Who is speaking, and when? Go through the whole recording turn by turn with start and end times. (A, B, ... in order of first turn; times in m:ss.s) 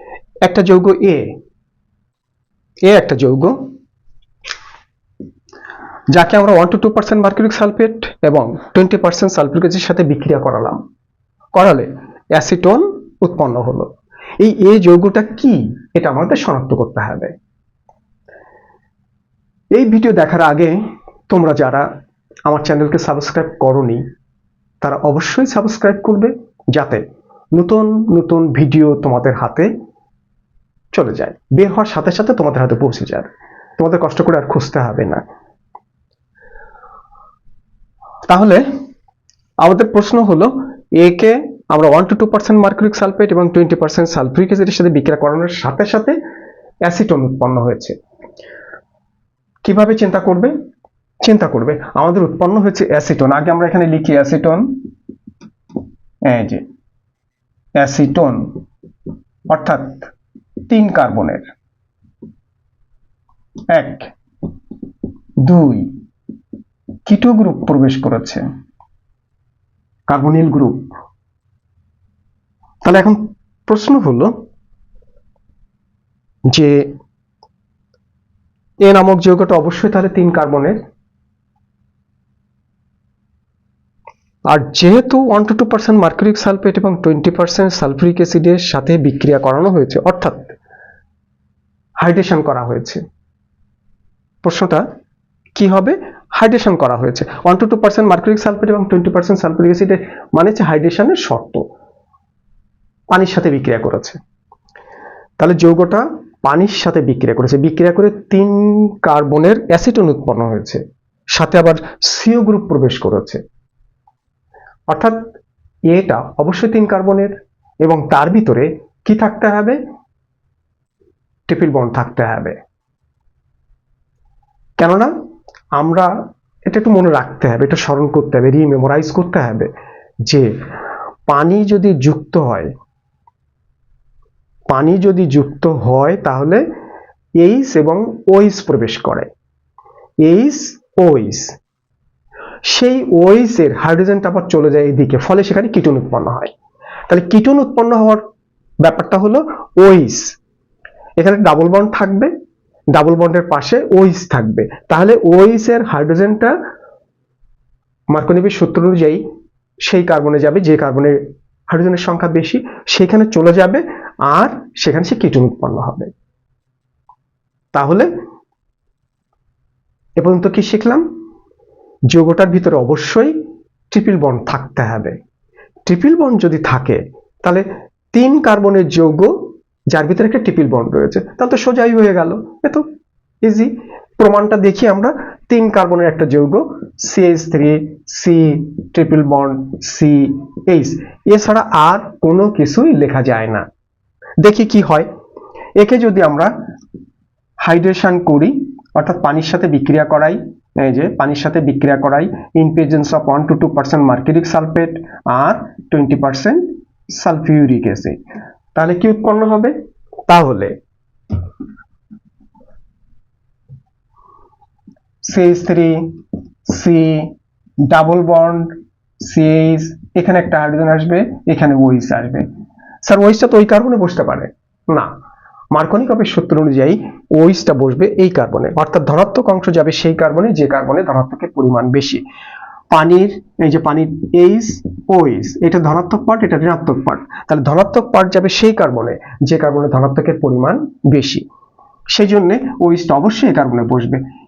0:00.4-0:01.2 A
0:02.9-0:03.6 A
0:06.1-0:10.8 A
0:11.5-0:17.3 A
0:19.7-0:21.9 A
0:22.5-0:24.0 A
0:24.8-0:27.0 A
0:27.5-0:29.7 A
0:30.9-0:35.2 A
0:38.3-0:38.6 A
0:39.6-0:46.2 A
0:46.8-0:48.0 A
0:49.6-0:50.5 A
0:51.2-0:54.7 A
0:56.3-0:56.6 A
0:57.8-0:58.5 A
0:59.5-1:00.1 A
1:00.7-1:01.5 A
1:03.7-1:04.1 A
1:05.4-1:05.9 A
1:07.0-1:08.4 A
1:10.1-1:10.8 A
1:12.8-1:14.3 A
1:16.5-1:16.9 A
1:18.8-1:20.8 A
1:24.5-1:30.5 A
1:32.0-1:33.0 A
1:34.4-1:34.8 A
1:35.6-1:41.6 A
1:43.1-1:44.2 A
1:45.4-1:50.8 A
1:51.3-1:53.4 A
1:54.9-1:55.2 A
1:55.9-1:59.8 A
2:01.5-2:02.6 A
2:04.8-2:05.1 A
2:05.8-2:06.1 A
2:06.7-2:09.7 A
2:11.3-2:12.7 A
2:14.7-2:16.6 A
2:17.4-2:19.3 A
2:20.2-2:21.5 A
2:22.6-2:26.5 A
2:27.1-2:28.2 A
2:28.8-2:30.3 A
2:31.2-2:32.3 A
2:32.9-2:36.5 A
2:38.1-2:39.2 A
2:39.8-2:41.2 A
2:41.7-2:46.1 A
2:47.7-2:48.1 A
2:50.2-2:51.0 A
2:52.1-2:53.3 A
2:53.9-2:55.2 A
2:55.8-2:59.3 A
2:59.9-3:02.8 A
3:03.4-3:13.6 A
3:14.4-3:15.1 A
3:15.8-3:16.5 A
3:17.6-3:28.2 A
3:28.7-3:29.7 A
3:30.3-3:30.8 A
3:35.2-3:36.0 A
3:36.7-3:37.3 A
3:37.8-3:42.5 A
3:43.0-3:45.1 A
3:45.7-3:52.2 A
3:52.9-4:01.4 A
4:02.1-4:04.2 A